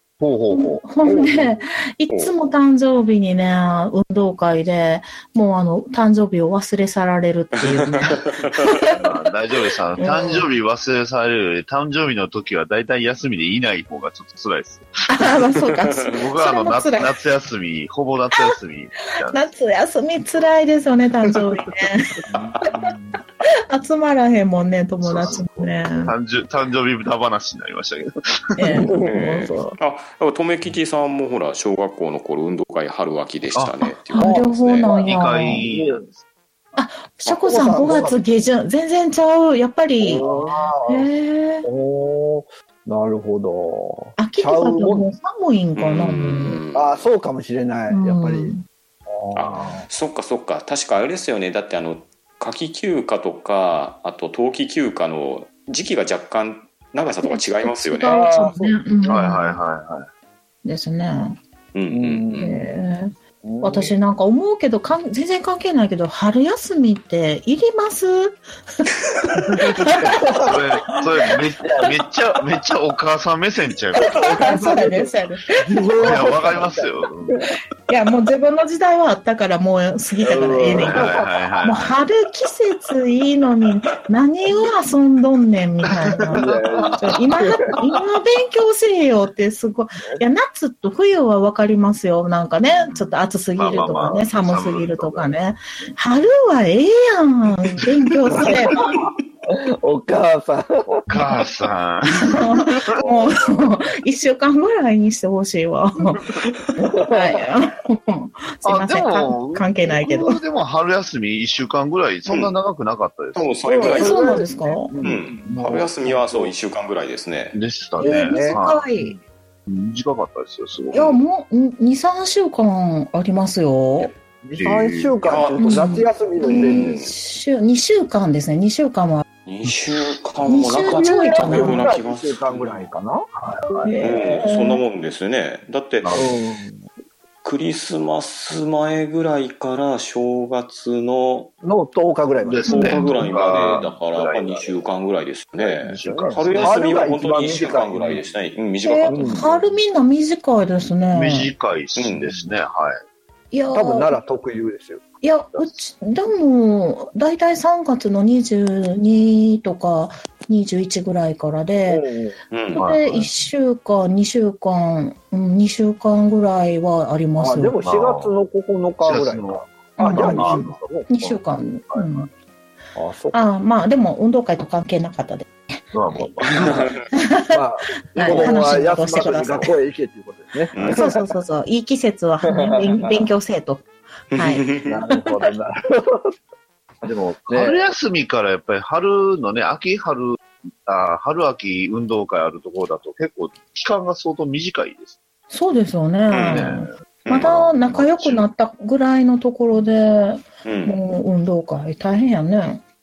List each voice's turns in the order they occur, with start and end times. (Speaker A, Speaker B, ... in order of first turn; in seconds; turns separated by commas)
Speaker A: 0.2-0.8, Speaker B: 0.5-9.0, Speaker C: 1.0-1.6, Speaker D: 7.6-8.6, Speaker A: 8.9-15.3, Speaker B: 10.0-10.4, Speaker B: 15.1-17.1, Speaker A: 16.1-19.5, Speaker B: 19.3-22.2, Speaker C: 22.3-22.9, Speaker B: 23.7-26.1, Speaker A: 25.0-28.9, Speaker B: 28.6-29.8, Speaker C: 28.7-29.4, Speaker D: 29.0-34.9, Speaker B: 33.8-35.6, Speaker C: 34.2-36.0, Speaker A: 34.9-36.2, Speaker B: 36.7-40.2, Speaker C: 37.4-38.2, Speaker C: 40.0-41.1, Speaker B: 40.8-41.7, Speaker C: 41.6-45.1, Speaker B: 44.2-46.6, Speaker D: 45.8-47.0, Speaker C: 46.2-48.5, Speaker B: 47.9-48.6, Speaker C: 49.1-49.9, Speaker D: 49.3-58.2, Speaker B: 57.2-59.6, Speaker C: 58.0-58.8, Speaker A: 59.0-60.1, Speaker B: 60.6-61.4, Speaker D: 61.7-62.6, Speaker C: 61.9-62.5, Speaker B: 62.4-70.2, Speaker C: 63.4-64.0, Speaker A: 69.6-74.8, Speaker C: 70.0-70.6, Speaker C: 71.6-71.9, Speaker B: 74.0-75.4, Speaker C: 74.0-77.5, Speaker A: 76.0-77.4, Speaker B: 77.9-98.8, Speaker C: 80.2-81.3, Speaker A: 80.6-82.0, Speaker A: 86.1-87.0, Speaker C: 86.3-87.5, Speaker A: 92.8-95.9, Speaker C: 93.8-94.1, Speaker C: 98.3-101.0, Speaker A: 100.9-103.0, Speaker B: 102.1-106.3, Speaker C: 103.0-103.7, Speaker C: 106.8-107.4, Speaker B: 107.0-110.4, Speaker A: 108.6-113.5, Speaker D: 112.3-112.5, Speaker D: 113.3-114.4, Speaker C: 113.7-115.2, Speaker B: 113.8-114.9, Speaker A: 115.0-116.4, Speaker D: 115.0-117.6, Speaker A: 117.5-118.8, Speaker B: 118.0-119.2, Speaker C: 118.0-119.2, Speaker A: 119.7-121.2, Speaker B: 120.9-124.1, Speaker C: 124.4-127.0, Speaker A: 124.6-125.2, Speaker D: 125.2-125.8, Speaker B: 125.6-129.2, Speaker D: 126.5-127.1, Speaker D: 129.4-132.9, Speaker B: 130.4-131.9, Speaker C: 130.8-133.9, Speaker A: 133.3-133.9, Speaker B: 133.8-134.8, Speaker D: 134.0-136.3, Speaker A: 136.0-136.4, Speaker C: 136.1-136.8, Speaker D: 137.4-141.5, Speaker C: 141.6-143.0, Speaker A: 142.4-144.8, Speaker D: 142.6-149.4, Speaker B: 142.7-143.3, Speaker C: 143.5-143.9, Speaker A: 145.6-147.0, Speaker C: 146.0-148.2, Speaker B: 148.8-151.5, Speaker C: 149.1-149.5, Speaker A: 149.3-149.7, Speaker A: 151.1-153.0, Speaker D: 151.9-152.5, Speaker B: 153.5-154.1, Speaker C: 153.7-155.0, Speaker B: 155.2-162.0, Speaker A: 155.5-155.8, Speaker C: 161.9-162.4, Speaker D: 162.5-162.9, Speaker B: 162.7-167.8, Speaker A: 162.8-163.3, Speaker C: 167.4-171.1, Speaker A: 167.8-168.3, Speaker A: 169.0-172.3, Speaker B: 170.0-172.3, Speaker C: 172.9-173.4, Speaker B: 173.3-175.5, Speaker A: 175.9-176.9, Speaker B: 176.1-176.4, Speaker D: 176.5-177.0, Speaker B: 177.1-177.6, Speaker C: 177.5-181.3, Speaker B: 178.1-179.7, Speaker A: 178.1-179.4, Speaker D: 180.7-181.1, Speaker B: 180.9-184.7, Speaker C: 182.5-183.3, Speaker D: 184.3-185.0, Speaker C: 184.8-186.3, Speaker A: 187.0-195.1, Speaker C: 187.5-187.9, Speaker B: 195.5-202.8, Speaker D: 196.3-196.7, Speaker A: 196.5-198.4, Speaker D: 197.2-197.7, Speaker D: 200.6-201.0